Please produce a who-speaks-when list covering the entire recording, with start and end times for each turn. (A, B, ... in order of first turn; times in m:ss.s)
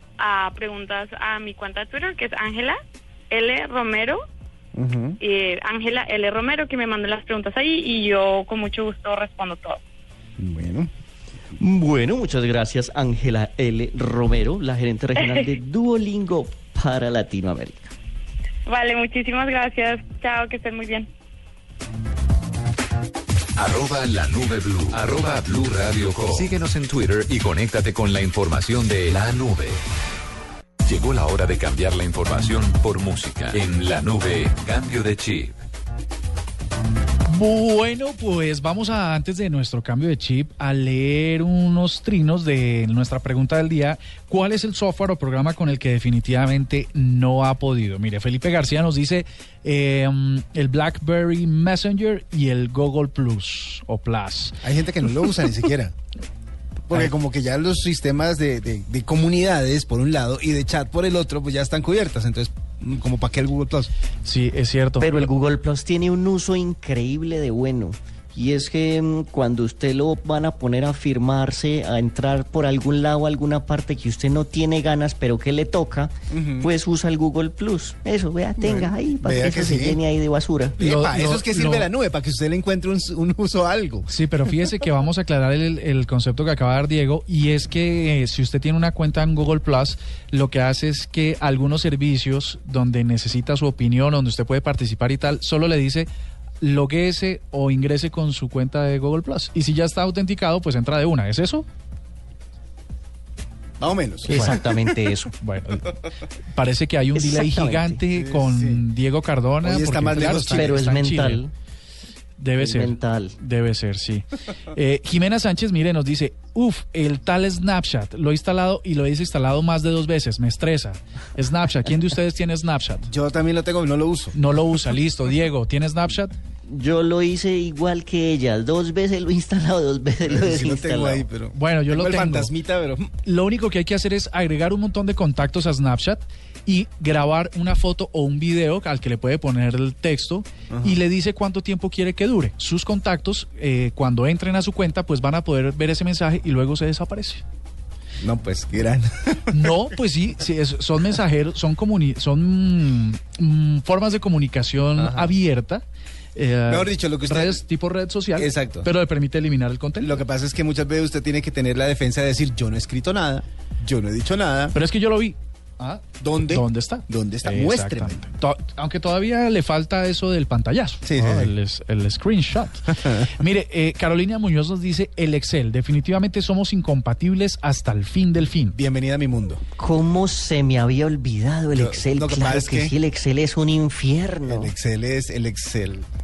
0:00.2-0:02.8 A
0:03.3-0:04.2 A
0:04.8-0:05.2 B
0:05.2-0:09.8 A
0:10.4-0:10.9 B
0:11.6-0:17.9 C
0:15.2-0:15.5 A
0:18.7-0:21.1 A
0:23.6-0:29.8 D
0:30.8-0:35.6 D
0:37.3-0:54.6 E
0:54.6-0:56.0 B
0:56.9-1:03.9 B
1:04.2-1:05.2 E
1:05.0-1:20.8 C
1:16.3-1:16.7 B
1:18.6-1:20.0 B
1:20.8-1:24.5 B
1:20.8-1:21.9 E
1:24.1-1:36.1 E
1:36.6-1:41.6 E
1:43.8-1:44.9 B
1:44.3-1:45.3 C
1:44.3-1:44.6 E
1:45.4-1:45.9 E
1:46.5-1:51.4 E
1:47.2-1:48.0 C
1:48.1-1:48.8 B
1:49.6-1:50.8 B
1:50.2-1:51.5 C
1:52.4-2:03.1 E
1:52.6-1:53.4 C
2:03.1-2:04.4 B
2:04.3-2:06.3 E
2:06.7-2:11.2 C
2:10.3-2:13.1 B
2:11.5-2:12.5 E
2:13.2-2:27.4 E
2:20.7-2:21.0 B
2:28.2-2:29.8 B
2:29.5-2:35.8 E
2:35.0-2:35.3 B
2:36.4-2:40.2 E
2:36.7-2:37.6 B
2:38.4-2:38.9 B
2:40.0-2:44.8 B
2:44.8-2:58.8 E
2:46.2-2:48.3 B
2:51.0-2:51.5 B
2:58.7-2:59.6 B
2:59.8-3:04.7 C
3:01.7-3:02.9 B
3:04.5-3:06.1 B